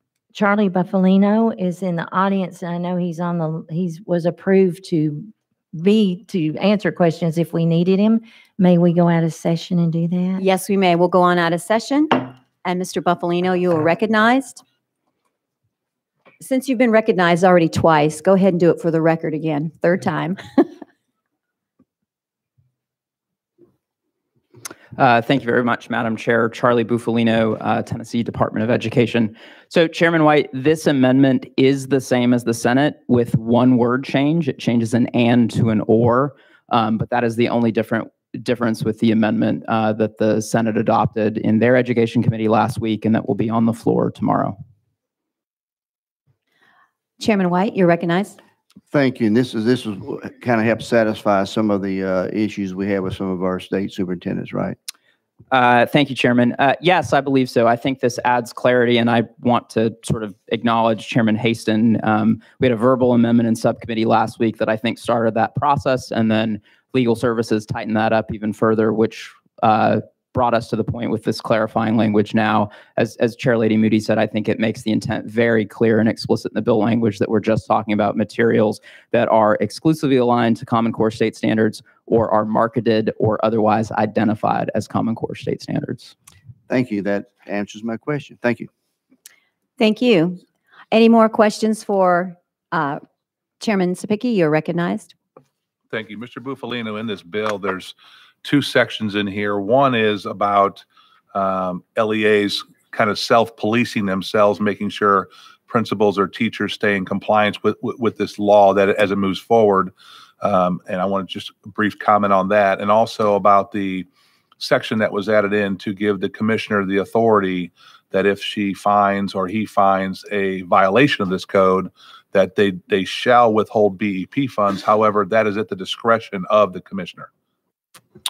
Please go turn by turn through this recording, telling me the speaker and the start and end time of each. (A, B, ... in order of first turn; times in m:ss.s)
0:00.3-0:10.4 A
0:10.4-0:14.6 B
0:16.4-0:20.7 B
0:25.0-0:44.6 C
0:47.2-0:48.4 B
0:48.9-0:54.8 D
0:55.5-1:26.1 C
1:26.7-1:28.7 D
1:29.8-1:33.0 B
1:33.6-1:35.1 B
1:35.9-1:54.1 E
1:54.6-2:07.3 E